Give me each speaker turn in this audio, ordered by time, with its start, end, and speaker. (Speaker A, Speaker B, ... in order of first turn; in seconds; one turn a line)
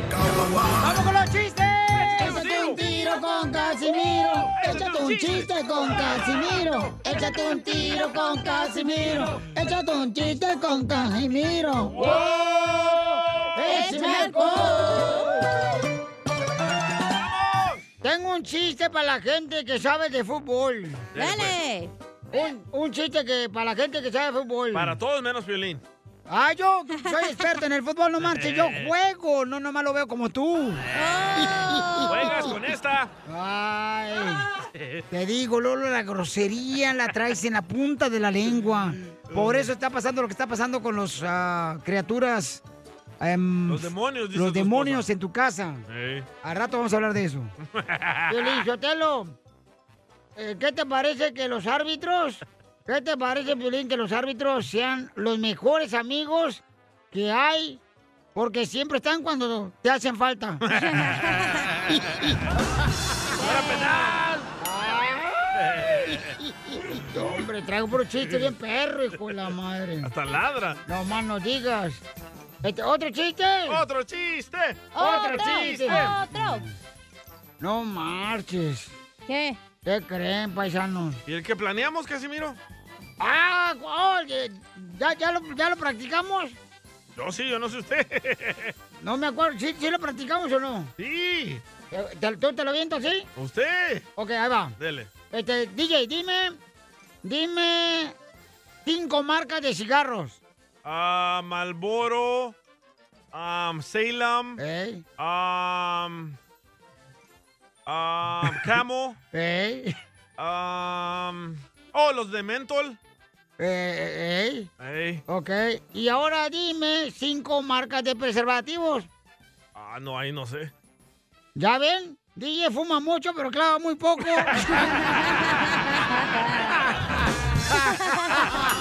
Speaker A: 0.8-15.3
Speaker B: 2.0-2.8
Speaker B: 4.5-6.7
Speaker B: 11.9-14.1
Speaker C: 13.6-15.3
Speaker B: 17.1-17.8
Speaker A: 18.0-21.1
Speaker B: 21.1-21.6
Speaker C: 21.1-21.9
Speaker A: 22.3-24.9
Speaker B: 24.7-25.8
Speaker A: 26.3-30.8
Speaker B: 28.2-28.9
Speaker C: 30.9-32.6
Speaker B: 30.9-31.4
Speaker B: 32.1-33.1
Speaker A: 33.3-34.5
Speaker B: 34.7-35.0
Speaker A: 35.1-42.6
Speaker B: 39.3-39.7
Speaker A: 43.2-45.8
Speaker B: 43.7-45.1
Speaker B: 45.9-46.2
Speaker A: 46.4-47.5
Speaker B: 47.8-48.3
Speaker A: 48.3-49.3
Speaker A: 50.4-57.8
Speaker A: 58.3-60.6
Speaker B: 60.7-62.4
Speaker C: 60.7-61.5
Speaker C: 63.4-64.2
Speaker B: 63.4-64.5
Speaker A: 64.6-65.6
Speaker B: 65.6-66.3
Speaker A: 67.1-70.1
Speaker B: 70.0-70.8
Speaker A: 70.8-72.0
Speaker A: 72.6-73.8
Speaker B: 73.7-76.2
Speaker C: 74.9-76.6
Speaker A: 75.0-76.3
Speaker A: 77.6-78.9
Speaker C: 79.3-79.6
Speaker A: 79.8-81.2
Speaker B: 81.2-82.6
Speaker A: 83.2-86.6
Speaker B: 87.2-88.7
Speaker A: 89.0-90.9
Speaker B: 91.0-91.6
Speaker A: 91.9-93.3
Speaker B: 93.3-94.1
Speaker A: 94.2-94.7
Speaker B: 94.8-95.1
Speaker A: 95.3-96.6
Speaker A: 97.2-98.1
Speaker A: 98.8-100.4
Speaker B: 100.8-102.5
Speaker B: 103.3-104.6
Speaker A: 104.6-105.0
Speaker B: 105.2-106.3
Speaker B: 107.8-109.2
Speaker A: 109.3-109.9
Speaker B: 110.4-113.0
Speaker A: 113.6-114.7
Speaker B: 114.8-115.2
Speaker A: 115.3-119.1
Speaker B: 119.7-120.7
Speaker A: 121.5-124.7